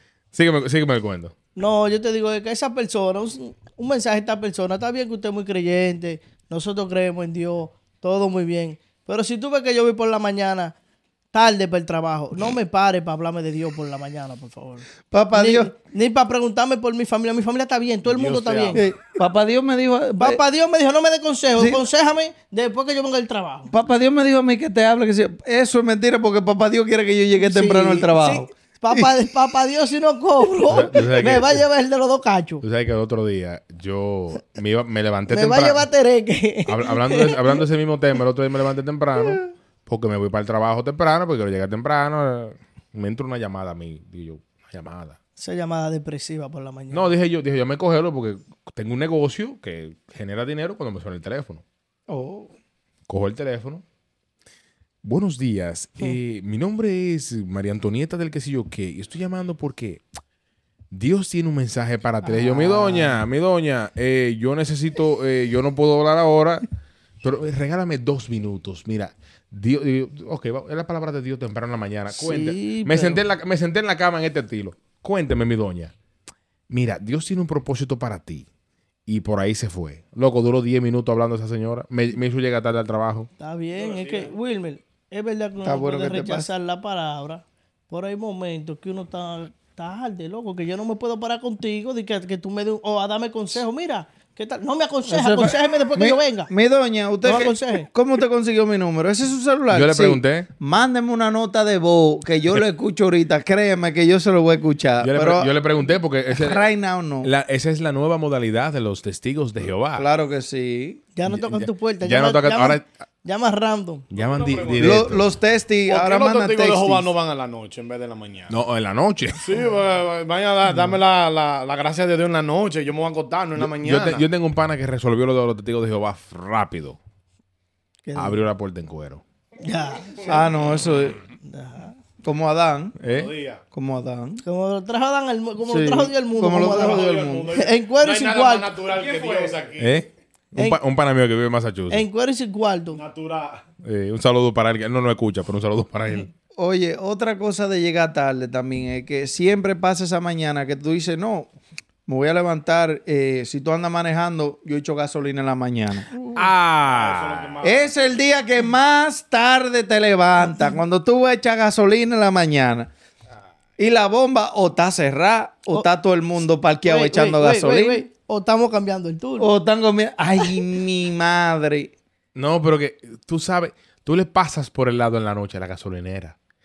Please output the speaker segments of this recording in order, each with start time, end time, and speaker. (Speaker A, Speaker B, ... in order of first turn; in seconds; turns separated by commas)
Speaker A: 0.3-1.3, Speaker B: 1.6-10.8, Speaker B: 11.3-18.8, Speaker C: 15.1-15.7, Speaker D: 18.1-18.8, Speaker C: 18.7-20.4, Speaker B: 20.2-23.7, Speaker C: 21.6-21.8, Speaker C: 23.7-29.1, Speaker B: 27.4-32.6, Speaker A: 30.7-31.6, Speaker A: 32.6-35.9, Speaker B: 35.3-37.6, Speaker A: 36.7-45.2, Speaker B: 45.4-47.1, Speaker A: 46.9-51.6, Speaker C: 52.1-52.5, Speaker A: 53.1-53.8, Speaker A: 55.0-60.0, Speaker A: 60.9-66.7, Speaker C: 62.2-63.2, Speaker A: 67.2-75.9, Speaker C: 72.1-73.2, Speaker A: 76.7-78.5, Speaker A: 79.1-83.3, Speaker B: 83.4-96.5, Speaker D: 83.8-84.3, Speaker C: 85.6-86.5, Speaker C: 95.1-105.5, Speaker B: 97.2-97.9, Speaker A: 99.7-100.5, Speaker A: 105.0-106.6, Speaker C: 106.3-107.3, Speaker A: 107.2-110.1, Speaker C: 110.0-111.0, Speaker B: 111.2-114.1, Speaker A: 111.3-112.9, Speaker A: 114.1-115.3, Speaker D: 114.1-115.1, Speaker C: 114.8-117.1, Speaker D: 115.9-118.6, Speaker A: 118.5-119.4, Speaker D: 119.4-124.3, Speaker A: 123.6-127.0, Speaker B: 128.1-128.4, Speaker A: 128.2-129.2, Speaker B: 129.6-130.2, Speaker C: 130.2-131.2, Speaker B: 131.4-132.0, Speaker C: 132.2-133.0, Speaker A: 133.0-133.3, Speaker D: 133.0-133.6, Speaker C: 133.7-134.4, Speaker B: 134.4-138.8, Speaker C: 135.7-137.5, Speaker D: 136.6-140.0, Speaker A: 139.8-142.1, Speaker B: 141.9-143.0, Speaker D: 142.9-143.7, Speaker A: 143.8-146.3, Speaker C: 146.6-151.5, Speaker C: 152.1-156.4, Speaker A: 156.3-157.5, Speaker D: 156.9-157.9, Speaker C: 157.6-162.9, Speaker C: 163.8-168.1, Speaker B: 166.8-169.5, Speaker C: 169.4-171.9, Speaker A: 172.3-176.4